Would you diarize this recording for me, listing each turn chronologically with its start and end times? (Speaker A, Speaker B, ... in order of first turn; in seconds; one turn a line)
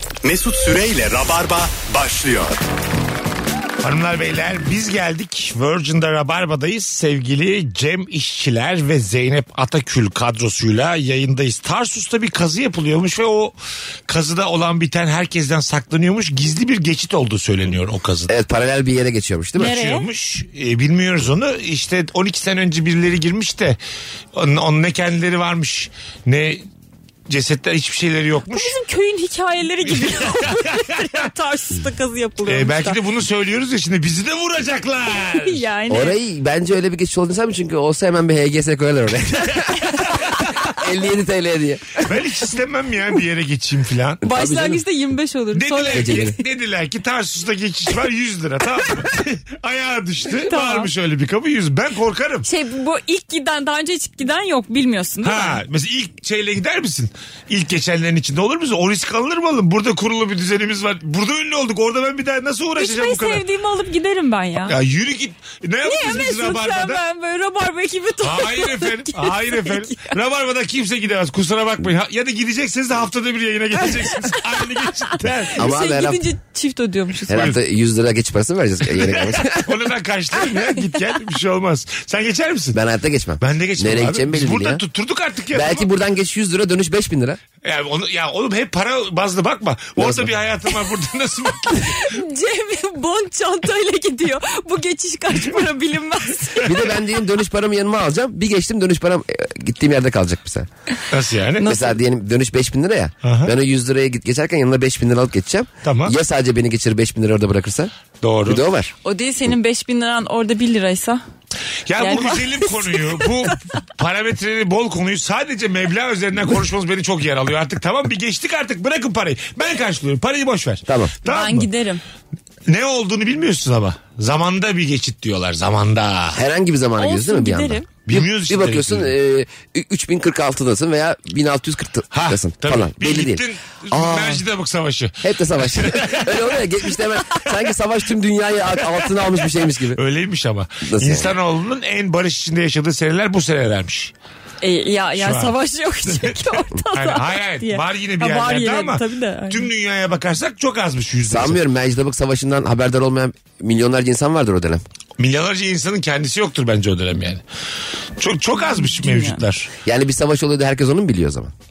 Speaker A: 0.2-2.6
Speaker B: 3.8-13.5
Speaker B: 14.1-18.3
Speaker C: 18.3-19.8
Speaker D: 19.6-20.0
Speaker B: 19.6-23.8
Speaker B: 24.3-26.6
Speaker B: 27.3-28.7
Speaker D: 28.5-33.0
Speaker B: 29.9-31.0
Speaker B: 32.5-35.6
Speaker D: 35.4-36.1
Speaker C: 35.9-42.0
Speaker B: 42.0-44.2
Speaker C: 44.2-44.8
Speaker D: 44.2-46.4
Speaker B: 45.5-52.5
Speaker C: 45.9-46.3
Speaker D: 50.4-50.9
Speaker D: 52.4-55.6
Speaker B: 55.2-63.4
Speaker D: 62.8-64.7
Speaker B: 64.7-67.0
Speaker D: 65.8-70.1
Speaker B: 68.2-75.7
Speaker C: 75.5-76.2
Speaker D: 75.6-77.5
Speaker C: 77.3-79.7
Speaker B: 78.9-82.8
Speaker C: 82.7-84.8
Speaker B: 83.4-85.8
Speaker C: 85.5-87.4
Speaker B: 87.6-92.1
Speaker C: 90.0-90.3
Speaker D: 91.7-96.7
Speaker C: 96.6-100.7
Speaker B: 101.1-101.7
Speaker D: 101.6-101.9
Speaker C: 101.6-107.9
Speaker B: 103.2-103.5
Speaker B: 105.8-106.1
Speaker B: 108.2-108.6
Speaker C: 108.5-108.9
Speaker D: 109.0-111.2
Speaker B: 111.8-121.7
Speaker D: 112.0-113.5
Speaker C: 120.8-121.1
Speaker D: 121.2-122.0
Speaker B: 122.7-126.4
Speaker C: 126.3-134.4
Speaker D: 127.0-127.9
Speaker B: 128.1-129.1
Speaker B: 132.1-136.3
Speaker C: 135.2-140.0
Speaker B: 139.9-144.1
Speaker C: 140.8-141.3
Speaker D: 144.6-149.7
Speaker B: 145.2-145.5
Speaker B: 146.1-146.4
Speaker B: 146.9-151.6
Speaker C: 151.3-154.8
Speaker B: 155.2-157.4
Speaker B: 158.2-159.7
Speaker D: 158.6-159.4
Speaker C: 159.8-161.5